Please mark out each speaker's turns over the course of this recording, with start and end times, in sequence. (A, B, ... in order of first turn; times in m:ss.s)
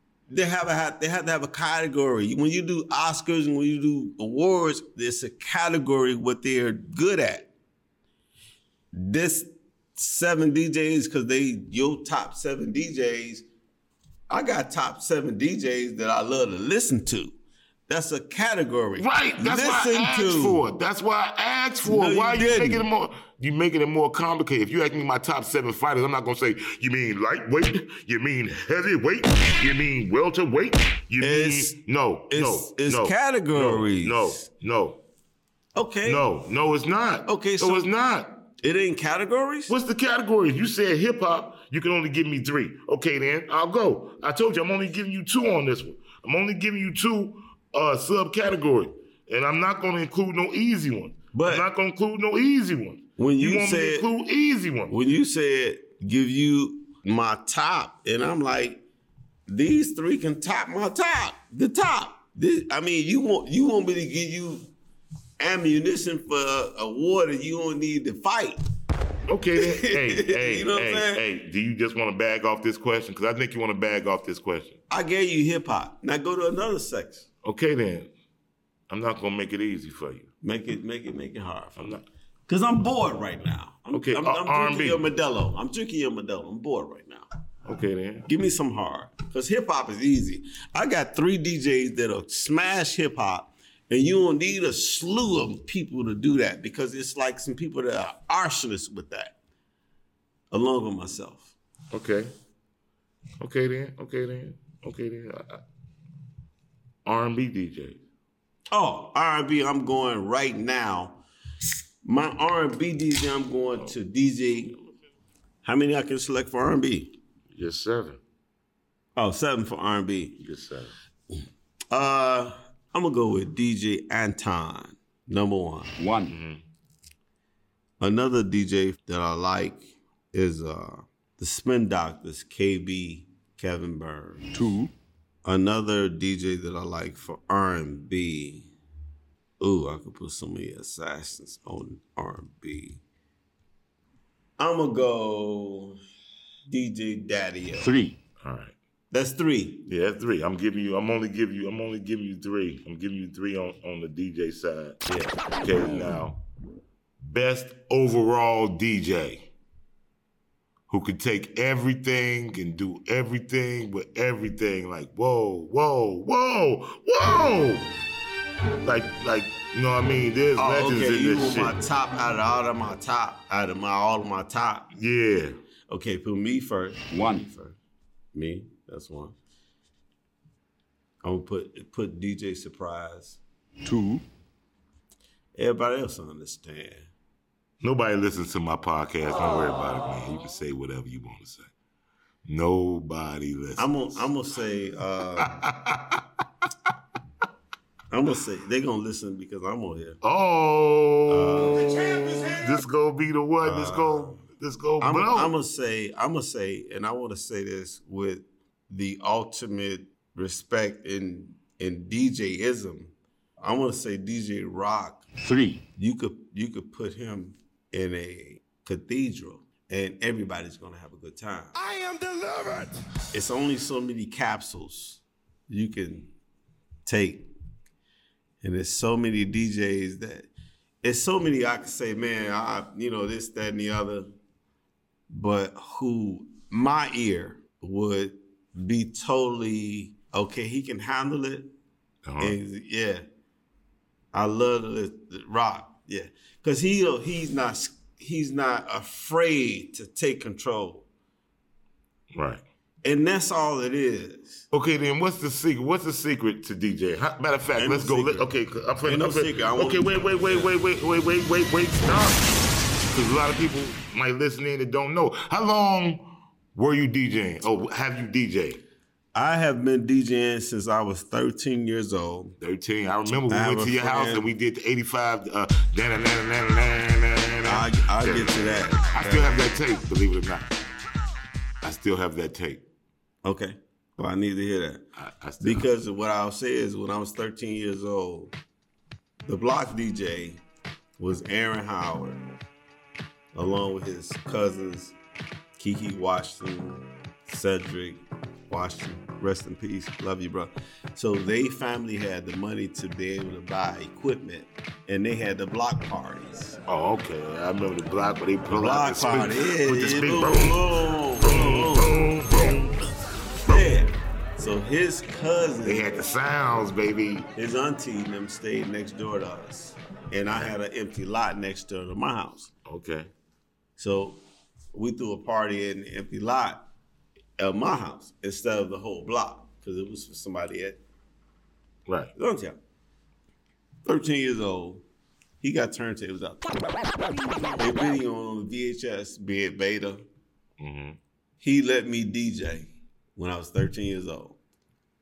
0:00.3-0:07.5 A
0:08.9-0:13.4 A
0:14.3-0:17.4 A
0:17.9-0:20.6 A
0:19.0-0:35.0 B
0:21.8-0:22.9 A
0:31.2-0:34.4 A
0:35.7-0:36.2 A
0:36.0-0:38.4 B
0:37.2-0:37.9 A
0:38.6-0:39.7 A
0:39.7-0:54.9 B
0:51.3-0:51.7 A
0:53.2-0:54.1 A
0:54.9-0:58.8 A
0:59.5-1:04.7 A
1:05.4-1:08.6 A
1:09.3-1:14.8 B
1:09.5-1:11.2 A
1:14.9-1:17.3 A
1:17.4-1:18.1 B
1:18.9-1:20.3 B
1:20.4-1:27.2 A
1:21.8-1:22.0 B
1:23.9-1:25.0 B
1:27.6-1:28.3 B
1:28.3-1:39.4 A
1:40.5-1:41.5 A
1:41.9-1:42.3 B
1:43.4-1:45.6 B
1:47.0-1:48.0 B
1:48.7-1:51.2 A
1:52.0-1:54.7 A
1:55.6-1:57.2 A
1:57.5-1:58.2 B
1:59.2-2:00.4 A
2:00.4-2:00.9 B
2:01.9-2:05.9 A
2:06.0-2:06.3 C
2:06.3-2:06.6 B
2:08.0-2:14.4 A
2:14.5-2:14.9 C
2:15.4-2:18.7 A
2:19.6-2:23.0 A
2:24.6-2:26.0 A
2:26.7-2:27.9 A
2:27.8-2:28.2 C
2:28.4-2:28.7 B
2:29.1-2:29.8 A
2:29.9-2:36.4 B
2:35.1-2:35.3 A
2:37.2-2:39.5 B
2:40.9-2:47.9 B
2:48.8-2:51.8 B
2:50.6-2:54.9 A
2:54.9-2:55.5 B
2:55.9-2:57.8 A
2:57.1-2:57.4 C
2:58.3-2:59.4 A
3:01.2-3:03.4 A
3:03.8-3:04.2 C
3:05.6-3:07.1 A
3:07.8-3:11.7 B
3:12.4-3:14.3 B
3:13.8-3:15.6 A
3:15.4-3:16.2 B
3:18.1-3:20.2 A
3:20.2-3:25.5 B
3:21.3-3:22.6 A
3:23.6-3:24.4 A
3:25.0-3:35.2 A
3:35.4-3:35.8 C
3:36.0-3:41.8 A
3:43.3-3:46.3 A
3:47.0-3:47.5 A
3:48.6-3:50.5 A
3:51.0-3:54.3 A
3:55.3-4:01.7 A
4:02.2-4:02.6 B
4:02.4-4:03.2 A
4:04.3-4:11.1 A
4:12.3-4:12.6 B
4:13.0-4:14.6 A
4:14.7-4:22.5 B
4:17.8-4:18.5 A
4:19.0-4:20.7 A
4:23.1-4:28.8 B
4:29.3-4:32.6 A
4:32.6-4:40.7 B
4:33.5-4:34.5 A
4:37.6-4:39.6 A
4:41.8-4:42.8 B
4:43.4-4:45.0 A
4:45.2-4:45.9 B
4:45.6-4:48.5 A
4:49.4-4:50.6 A
4:51.2-4:52.4 A
4:53.5-4:55.1 A
4:55.8-5:06.8 A
5:06.9-5:10.8 B
5:08.7-5:12.8 A
5:11.4-5:13.0 B
5:13.6-5:16.2 A
5:15.8-5:17.4 B
5:17.5-5:22.7 A
5:22.8-5:23.3 B
5:24.0-5:24.4 A
5:24.9-5:26.8 A
5:27.6-5:31.0 A
5:32.1-5:32.3 B
5:32.3-5:32.8 A
5:34.0-5:35.0 A
5:35.6-5:36.8 A
5:37.7-5:40.2 A
5:40.8-5:41.2 B
5:41.6-5:44.6 A